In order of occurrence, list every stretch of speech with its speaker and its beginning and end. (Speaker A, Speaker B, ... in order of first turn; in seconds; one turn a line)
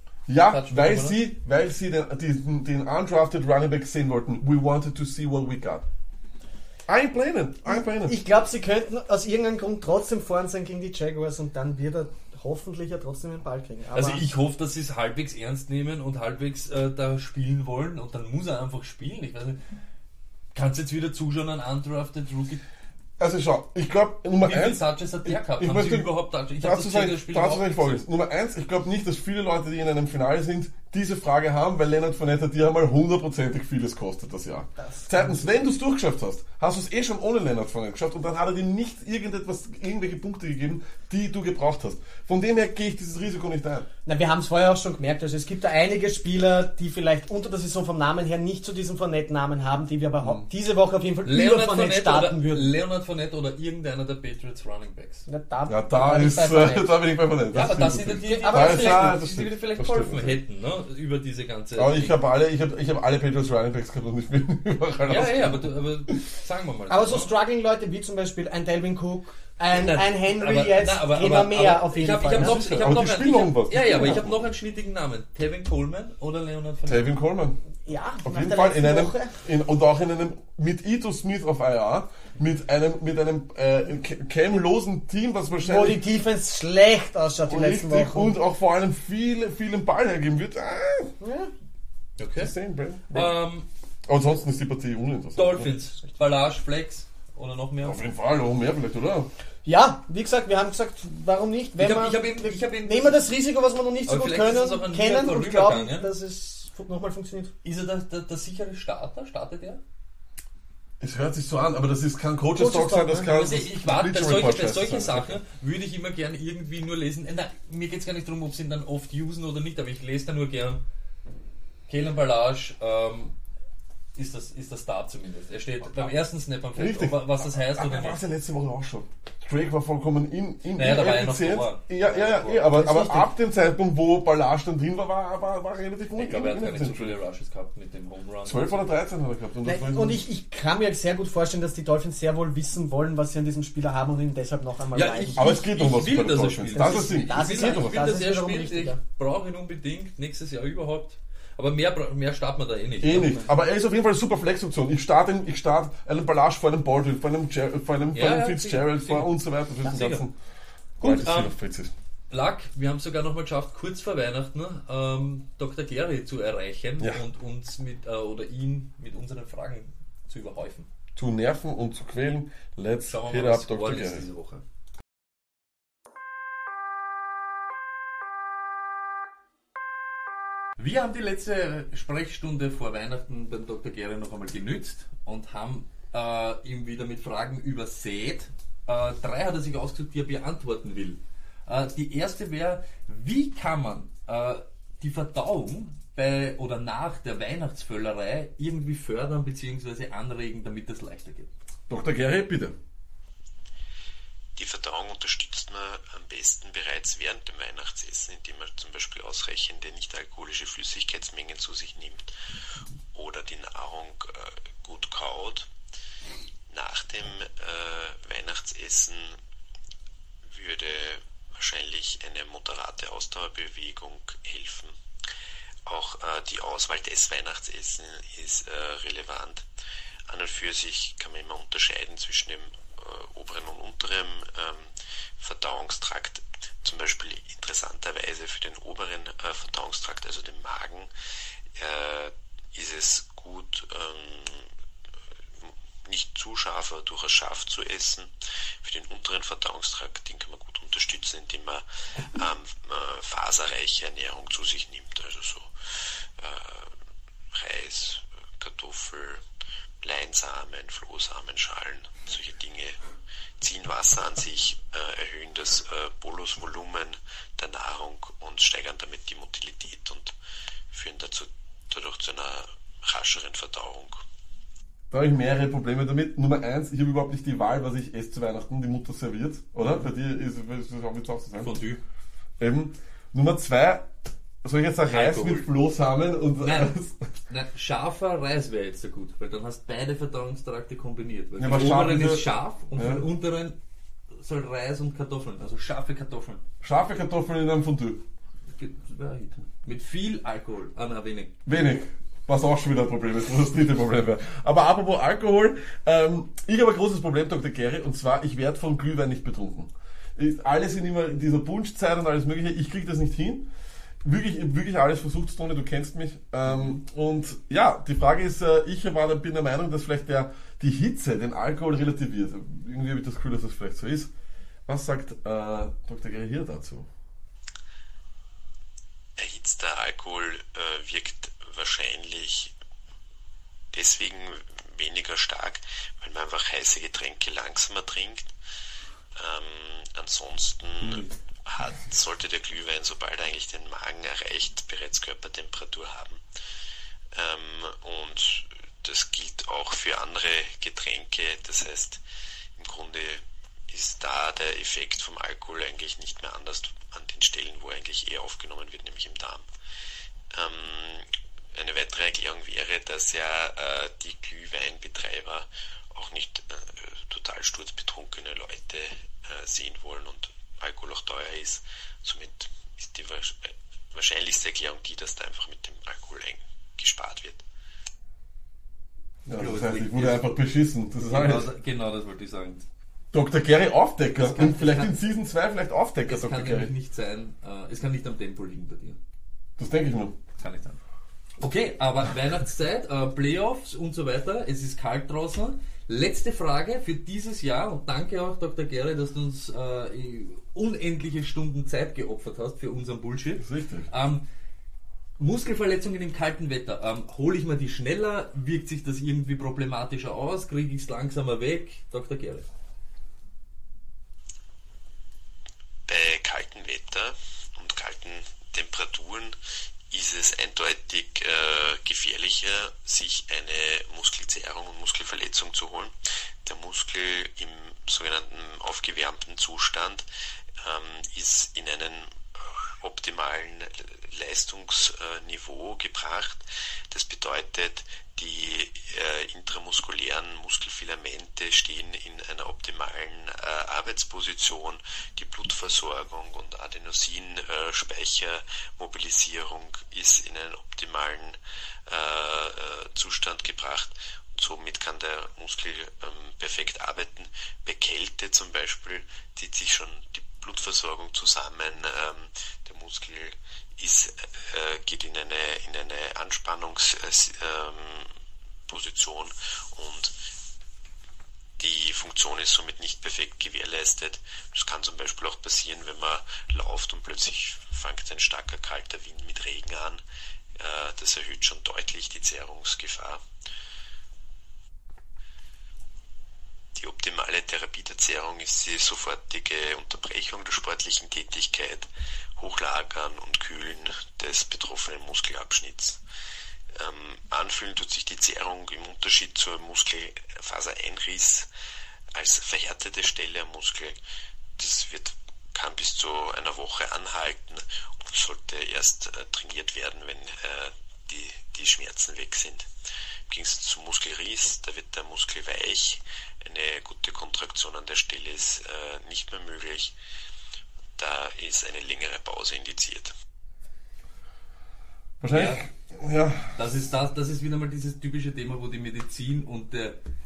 Speaker A: 0.3-5.8
Speaker B: 0.4-1.2
Speaker A: 6.9-8.2
Speaker C: 7.7-14.2
Speaker B: 13.9-19.6
Speaker B: 20.5-22.6
Speaker A: 23.2-43.9
Speaker B: 24.4-28.0
Speaker C: 34.8-35.1
Speaker C: 44.1-52.8
Speaker A: 50.2-50.5
Speaker B: 51.2-55.3
Speaker C: 55.3-57.0
Speaker A: 55.7-60.4
Speaker B: 57.5-62.2
Speaker C: 58.2-59.2
Speaker A: 61.8-66.2
Speaker B: 65.1-67.3
Speaker C: 66.9-72.6
Speaker B: 69.7-77.1
Speaker A: 72.3-74.5
Speaker A: 76.9-77.6
Speaker C: 77.9-79.3
Speaker A: 78.2-86.0
Speaker C: 85.6-88.4
Speaker A: 87.5-91.1
Speaker C: 91.2-91.5
Speaker B: 92.2-92.5
Speaker A: 92.4-93.3
Speaker B: 93.1-93.7
Speaker A: 94.1-95.7
Speaker B: 95.4-98.0
Speaker A: 97.8-99.3
Speaker C: 99.7-107.5
Speaker B: 101.8-103.2
Speaker B: 104.1-106.1
Speaker B: 107.6-109.8
Speaker A: 111.0-115.4
Speaker C: 112.6-113.3
Speaker B: 113.3-120.8
Speaker B: 121.9-123.3
Speaker B: 124.2-128.2
Speaker A: 125.8-126.2
Speaker A: 126.8-137.2
Speaker B: 130.7-132.7
Speaker C: 132.7-133.3
Speaker B: 136.2-138.9
Speaker A: 138.4-140.2
Speaker C: 139.7-145.5
Speaker B: 144.9-153.5
Speaker A: 145.4-148.0
Speaker C: 146.7-149.0
Speaker A: 153.0-160.3
Speaker B: 158.1-159.3
Speaker B: 159.8-160.2
Speaker B: 161.0-161.6
Speaker A: 161.0-161.9
Speaker B: 162.3-170.9
Speaker A: 171.2-174.2
Speaker B: 173.0-174.6
Speaker B: 180.8-201.5
Speaker A: 201.9-202.7
Speaker D: 204.6-212.3
Speaker D: 213.1-215.7
Speaker D: 216.7-219.4
Speaker D: 220.5-224.9
Speaker D: 225.9-229.7
Speaker D: 230.3-241.1
Speaker D: 241.8-244.7
Speaker D: 245.6-248.3
Speaker D: 248.8-251.8
Speaker D: 252.3-255.7
Speaker D: 256.4-256.9
Speaker D: 257.5-259.4
Speaker D: 260.0-263.0
Speaker D: 263.6-270.3
Speaker D: 270.9-274.2
Speaker A: 275.1-281.8
Speaker B: 281.6-282.0
Speaker A: 282.6-284.1
Speaker A: 284.6-287.2
Speaker B: 285.0-285.7
Speaker B: 286.6-286.9
Speaker B: 287.5-293.8
Speaker A: 291.6-293.3
Speaker B: 294.4-296.6
Speaker A: 296.8-298.2
Speaker B: 298.8-301.5
Speaker A: 301.7-313.7
Speaker A: 314.2-324.3
Speaker A: 324.9-327.1
Speaker D: 329.4-332.7
Speaker D: 333.9-338.5
Speaker D: 339.4-346.4
Speaker D: 347.3-352.2
Speaker D: 352.8-359.6
Speaker D: 360.5-377.6
Speaker A: 379.4-381.7
Speaker B: 379.5-380.5
Speaker B: 381.2-382.9
Speaker A: 383.3-386.9
Speaker B: 384.4-385.2
Speaker B: 386.3-389.2
Speaker A: 389.8-390.4
Speaker B: 390.6-391.0
Speaker B: 391.6-404.4
Speaker A: 403.6-404.1
Speaker B: 405.4-412.7
Speaker D: 416.1-419.6
Speaker D: 420.1-426.1
Speaker D: 426.6-430.3
Speaker D: 430.8-432.4
Speaker D: 433.0-468.3
Speaker D: 468.9-470.3
Speaker D: 471.8-480.2
Speaker D: 480.8-483.4
Speaker D: 487.0-496.2
Speaker D: 497.0-501.7
Speaker D: 502.4-504.2
Speaker D: 504.8-512.9
Speaker D: 513.5-520.1
Speaker D: 521.2-523.3
Speaker A: 525.4-526.7
Speaker B: 525.5-525.9
Speaker B: 526.8-530.2